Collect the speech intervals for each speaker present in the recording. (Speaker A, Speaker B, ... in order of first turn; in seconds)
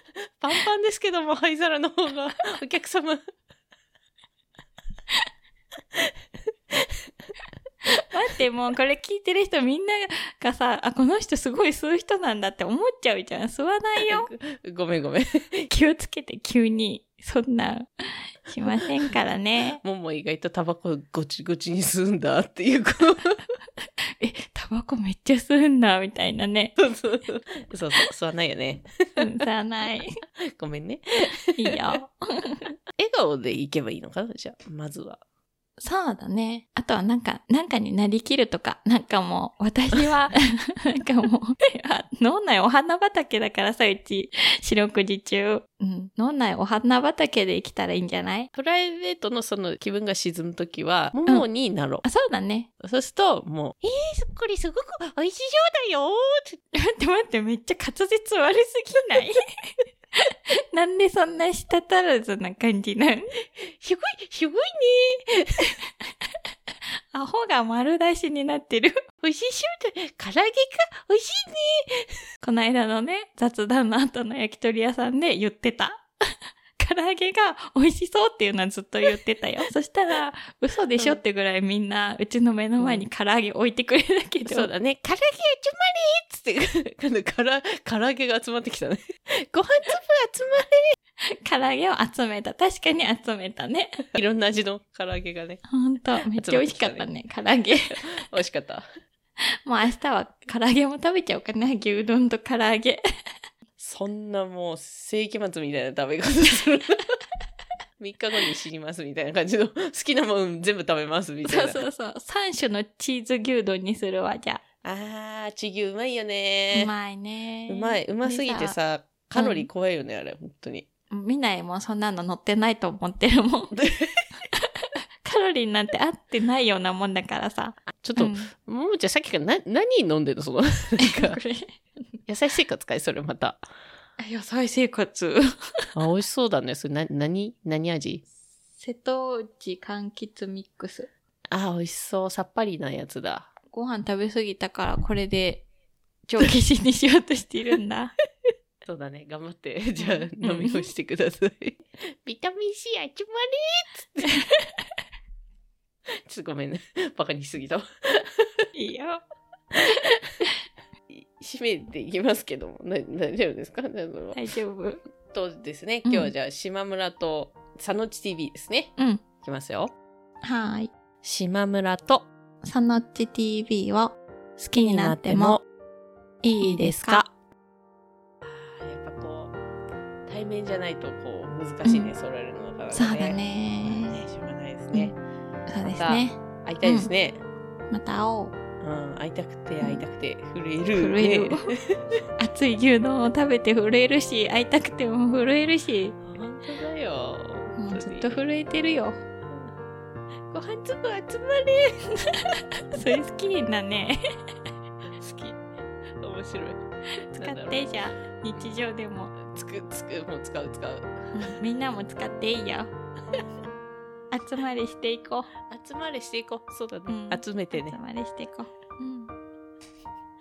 Speaker A: 0.4-3.2, 14.0-15.7, 19.8-23.4, 26.8-29.4, 30.5-31.8, 33.0-35.2, 48.5-52.0, 52.8-56.6, 63.6-65.7, 69.2-72.1, 82.8-83.1, 84.5-90.8, 94.1-95.6, 96.2-97.1, 97.8-98.8, 103.8-107.2, 108.0-111.8, 114.8-116.9, 117.7-120.8, 123.7-124.1, 128.0-131.4, 132.3-133.6, 135.9-138.2, 141.5-143.5, 148.8-154.3, 156.2-158.7, 159.8-160.3, 161.1-164.4, 165.3-169.9, 171.2-172.3, 174.8-175.6, 176.6-177.3, 178.4-179.5, 180.3-185.2, 185.9-187.4, 188.8-192.1, 196.2-198.4, 200.5-201.9, 205.2-205.6, 206.2-206.8, 207.3-207.9, 209.3-211.5, 215.7-218.0
Speaker B: 8.1-14.3, 15.7-17.9, 18.5-19.8, 24.2-26.8, 29.2-30.1, 31.6-32.7, 35.8-48.5, 52.0-52.7, 56.7-59.4, 60.1-63.3, 67.1-69.0, 72.4-76.0, 76.8-84.7, 91.3-94.0, 95.7-98.0, 99.6-103.0, 111.4-114.6, 116.7-118.8, 119.3-119.7, 121.1-123.8, 125.2-128.5, 131.0-131.8, 134.2-135.4, 138.8-141.1, 143.7-145.7, 146.3-148.1, 150.0-150.9, 154.2-154.7, 158.7-159.2, 164.3-165.0, 166.0-166.3, 169.0-169.2, 170.4-170.9, 172.6-175.6, 176.4-177.2, 181.8-182.1, 182.9-184.2, 185.7-187.1, 187.9-188.5, 190.9-191.7, 192.4-196.1, 197.8-199.2, 202.3-204.2, 207.3-209.3, 211.3-212.9, 214.3-215.5, 217.1-219.3